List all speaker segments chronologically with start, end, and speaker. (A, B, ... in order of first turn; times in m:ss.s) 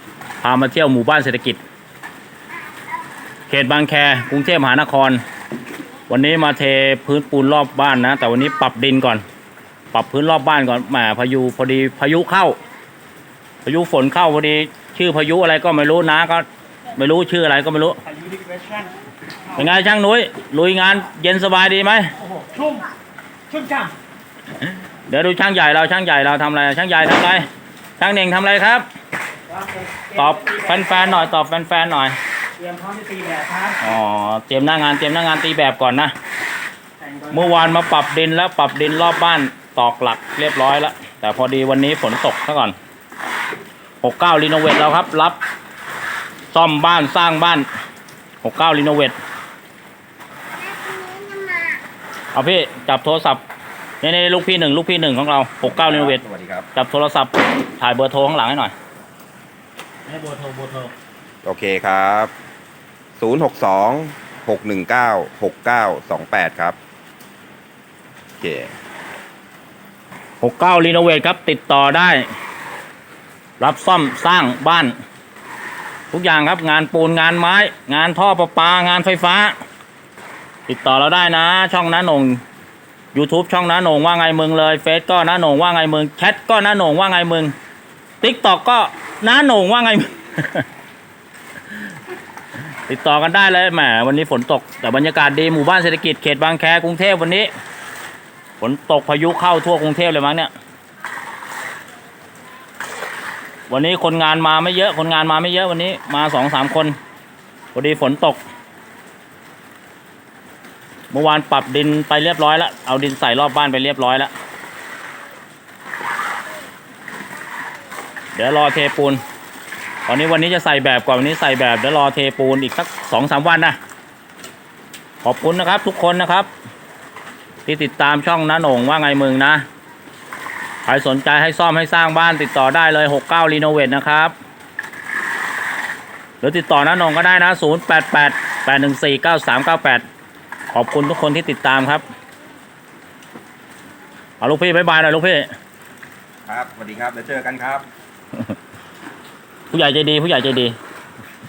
0:00.4-0:01.6 A
0:03.5-0:05.2 A
0:06.1-0:09.2 A
0:09.9-0:12.6 A
0:13.6-0:18.0 A
0:18.1-0:18.9 B
0:19.5-0:22.1 A
0:22.3-0:22.9 B
0:23.5-0:23.9 B
0:24.6-0:27.4 A
0:28.0-0:28.8 A
0:30.0-0:30.7 B
0:30.1-0:32.2 A
0:32.6-0:33.7 B
0:33.7-0:36.1 A
0:37.3-0:42.8 A
0:44.0-0:45.4 A
0:46.5-0:47.6 A
0:48.4-0:49.2 A
0:52.3-0:53.4 A
0:54.0-0:56.2 A
0:55.6-0:56.7 C
0:56.7-0:58.7 A
1:00.1-1:00.9 A
1:01.4-1:02.3 C
1:03.2-1:06.8 C
1:08.4-1:08.7 C
1:10.4-1:12.3 A
1:13.6-1:14.9 A
1:16.1-1:19.5 A
1:20.7-1:22.4 A
1:23.1-1:27.5 A
1:28.2-1:30.6 A
1:32.9-1:37.5 A
1:38.6-1:40.5 A
1:43.7-1:47.0 A
1:47.7-1:48.4 A
1:51.1-1:54.3 A
1:58.3-1:59.2 A
2:00.0-2:03.8 A
2:05.2-2:06.5 A
2:07.6-2:09.6 A
2:10.8-2:14.3 A
2:16.4-2:20.0 A
2:20.7-2:22.0 A
2:24.4-2:25.5 A
2:26.4-2:27.8 C
2:29.7-2:30.7 A